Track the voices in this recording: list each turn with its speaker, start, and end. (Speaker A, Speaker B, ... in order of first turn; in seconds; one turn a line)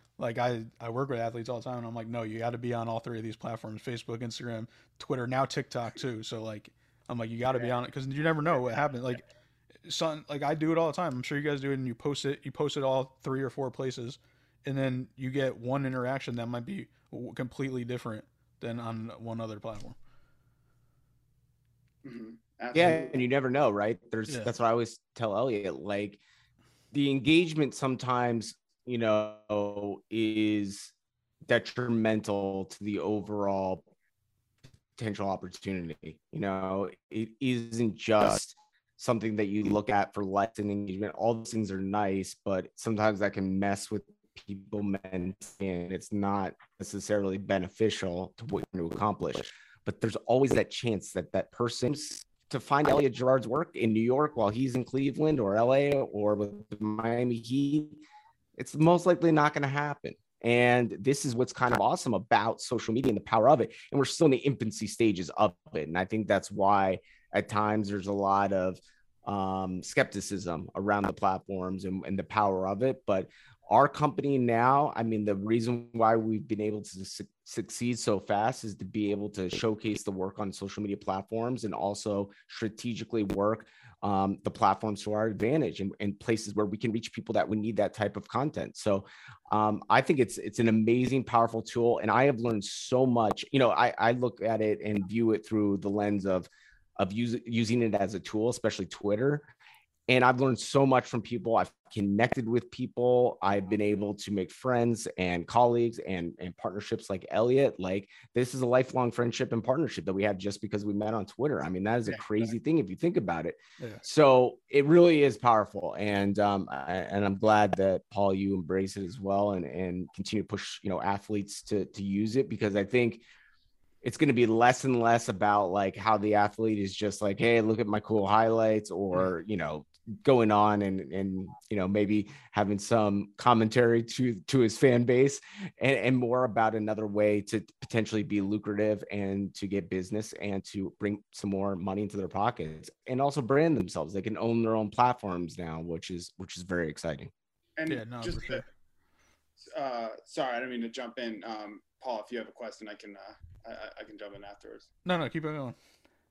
Speaker A: 0.2-9.2
Speaker A: 9.8-20.0
Speaker B: 22.0-23.2
Speaker C: 22.7-26.2
Speaker C: 26.9-30.9
Speaker C: 31.5-33.9
Speaker C: 35.0-58.0
Speaker C: 58.6-99.5
Speaker C: 100.1-123.2
Speaker B: 112.1-112.5
Speaker C: 124.0-147.3
Speaker B: 147.8-148.6
Speaker A: 147.9-148.6
Speaker B: 149.7-154.9
Speaker A: 155.1-155.8